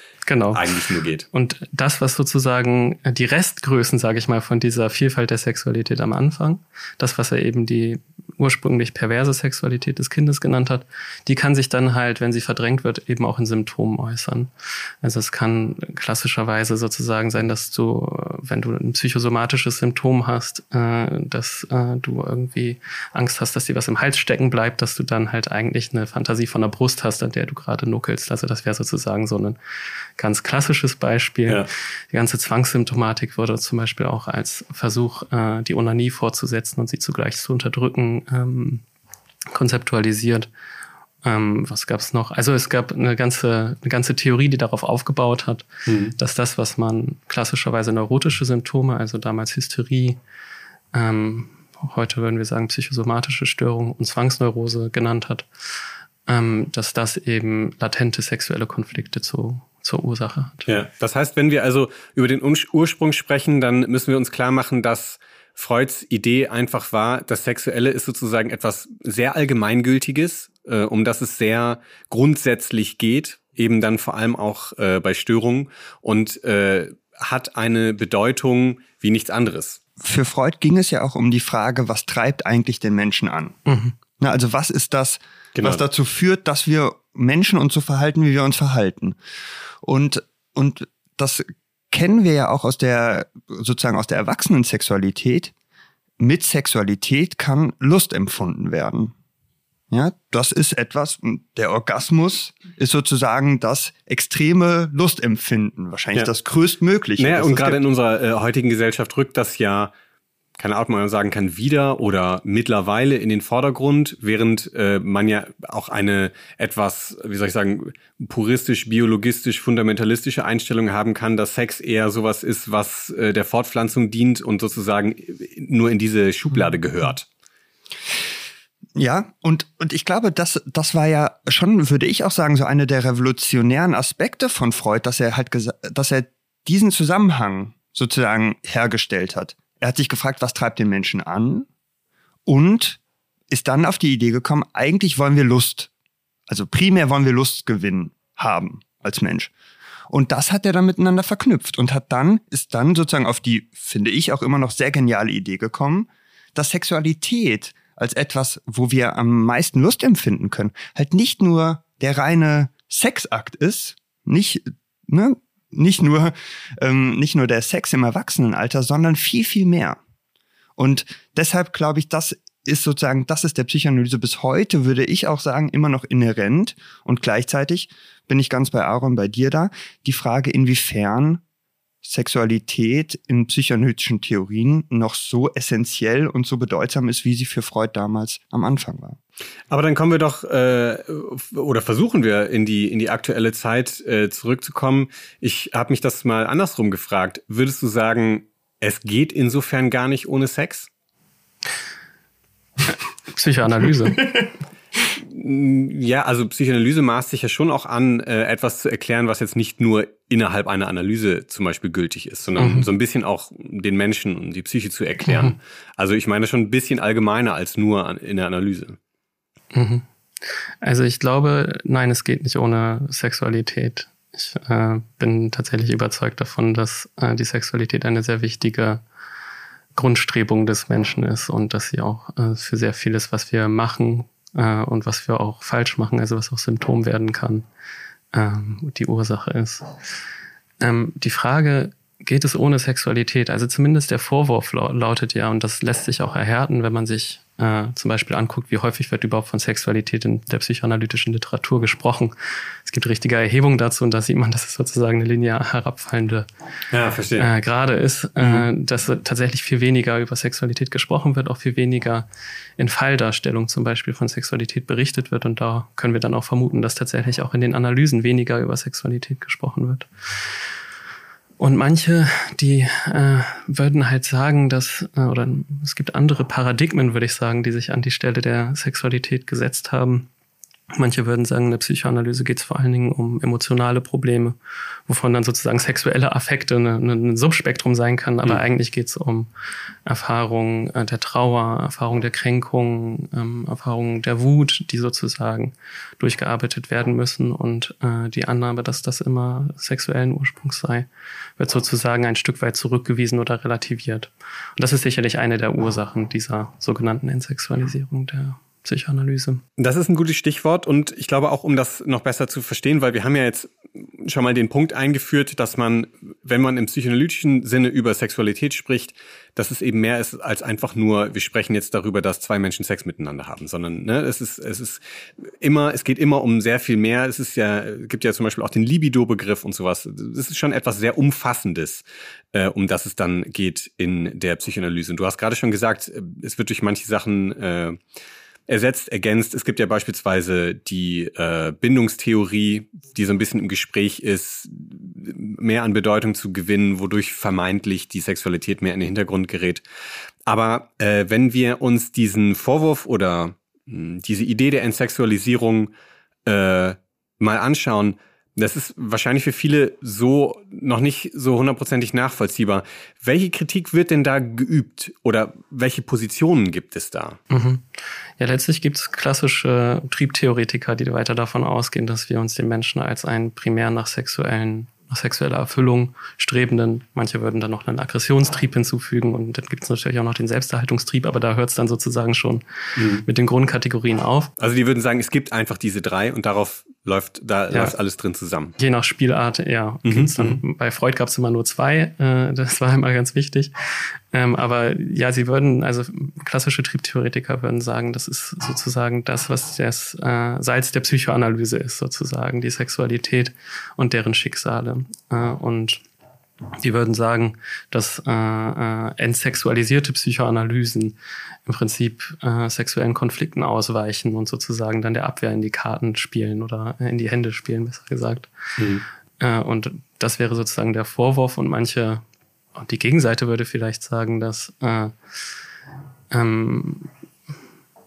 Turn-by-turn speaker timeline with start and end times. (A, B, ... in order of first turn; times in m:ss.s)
0:00.2-0:00.6 A
0:00.5-0:01.2 B
0:01.3-0:14.5 A
0:15.0-0:29.6 A
0:30.2-0:38.8 A
0:39.5-0:40.5 A
0:41.2-0:50.2 A
0:45.9-0:46.1 B
0:50.9-0:55.5 A
0:56.3-1:00.8 A
1:00.7-1:19.8 B
1:20.0-1:23.6 C
1:23.6-1:23.9 A
1:24.2-1:29.2 C
1:25.6-1:25.8 B
1:29.8-1:35.5 C
1:36.2-1:39.1 C
1:39.9-1:47.8 C
1:47.2-1:49.9 B
1:50.6-2:07.2 B
2:09.0-2:21.7 C
2:22.4-2:23.0 C
2:23.5-2:25.9 C
2:26.5-2:29.5 C
2:30.1-2:50.0 C
2:50.8-3:01.4 C
3:02.0-3:09.2 C
3:09.7-3:20.9 B
3:23.3-3:24.3 A
3:25.1-3:39.0 B
3:32.6-3:32.9 A
3:35.2-3:35.5 A
3:39.7-3:40.0 A
3:40.8-3:49.0 A
3:49.9-3:57.6 A
3:58.3-3:59.9 A
4:00.8-4:16.5 A
4:16.9-4:17.5 B
4:17.4-4:22.3 A
4:18.4-4:18.6 B
4:22.8-4:30.1 A
4:31.6-4:40.3 A
4:40.9-4:44.6 A
4:45.1-4:49.5 A
4:50.0-5:09.6 A
5:09.8-5:25.0 B
5:25.6-5:38.0 B
5:38.7-5:49.8 B
5:50.4-5:55.9 B
5:56.4-6:07.4 B
6:07.5-6:07.8 A
6:08.4-6:24.5 A
6:23.0-6:23.2 B
6:24.6-6:28.8 B
6:28.8-6:33.7 A
6:30.0-6:30.6 B
6:34.3-6:46.0 A
6:46.8-6:58.5 A
6:58.8-6:59.0 B
6:59.4-7:02.2 A
7:02.7-7:05.1 A
7:06.3-7:07.1 A